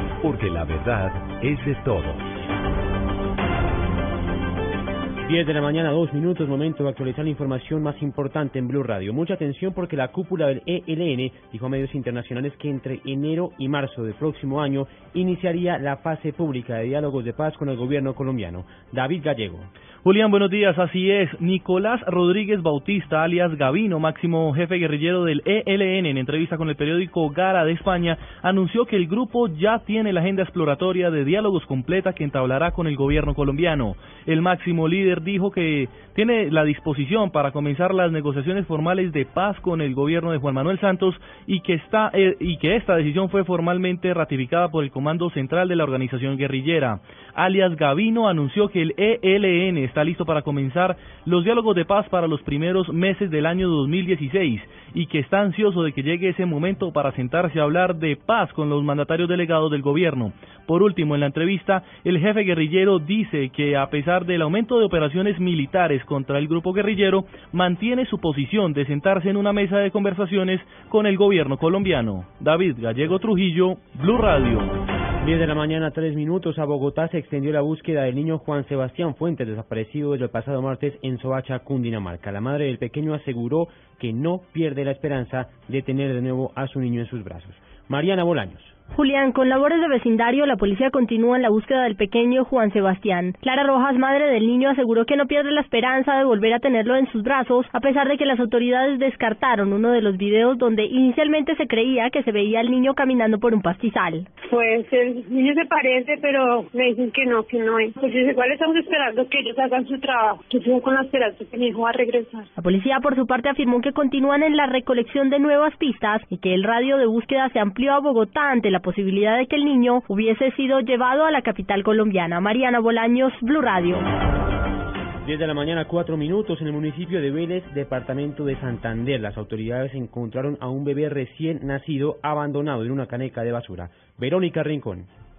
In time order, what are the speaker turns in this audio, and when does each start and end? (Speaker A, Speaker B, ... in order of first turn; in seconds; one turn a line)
Speaker A: 0.2-2.3
Speaker B: 5.2-19.7
Speaker C: 20.0-74.7
Speaker B: 75.2-88.8
Speaker D: 88.9-104.3
Speaker E: 104.5-112.5
Speaker D: 112.5-124.0
Speaker B: 125.2-135.1